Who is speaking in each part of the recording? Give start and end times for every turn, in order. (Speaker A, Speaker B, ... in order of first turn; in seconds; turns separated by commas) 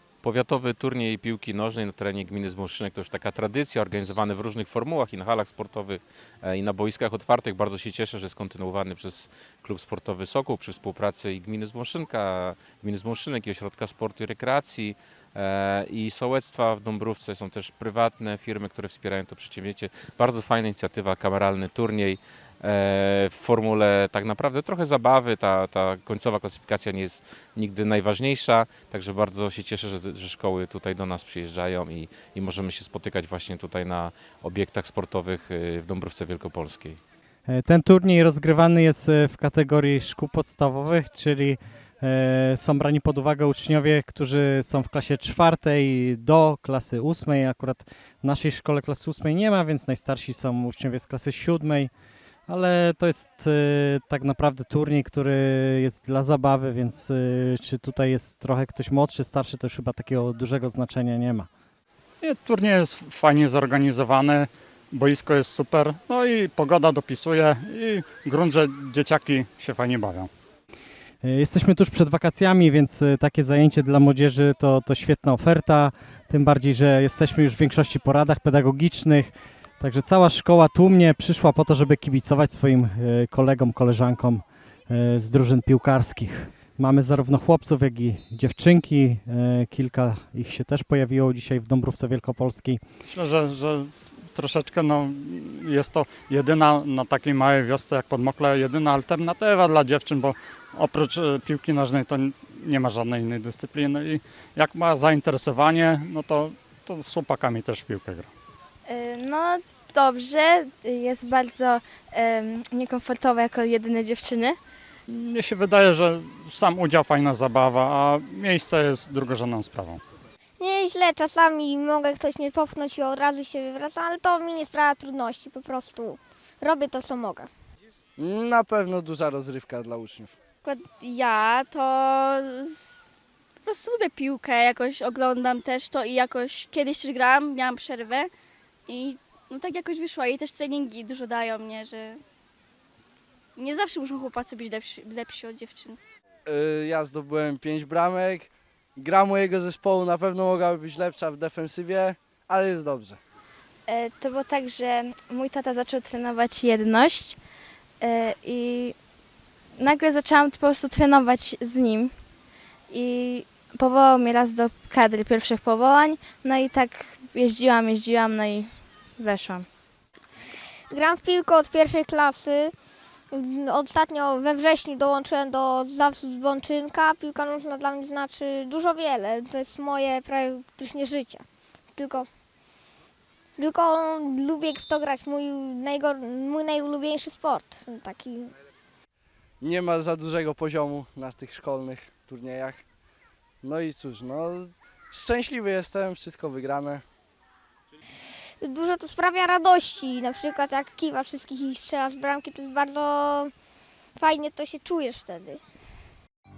Speaker A: 0.2-37.0, Speaker B: 37.5-51.9, Speaker B: 52.5-61.5, Speaker C: 62.2-70.3, Speaker B: 71.2-92.8, Speaker C: 93.1-108.3, Speaker D: 108.9-114.6, Speaker C: 115.2-120.0, Speaker E: 120.6-127.5, Speaker F: 128.2-130.3, Speaker G: 130.6-132.9, Speaker G: 133.6-138.3, Speaker G: 138.9-142.2, Speaker G: 143.6-146.0, Speaker F: 146.5-153.2, Speaker D: 153.9-157.4, Speaker D: 158.0-158.9, Speaker D: 159.8-162.1, Speaker D: 162.9-169.7, Speaker E: 170.9-172.7, Speaker E: 173.3-182.3, Speaker E: 183.6-188.6, Speaker F: 189.6-192.8, Speaker F: 193.6-197.0, Speaker E: 198.6-203.5, Speaker E: 204.2-205.6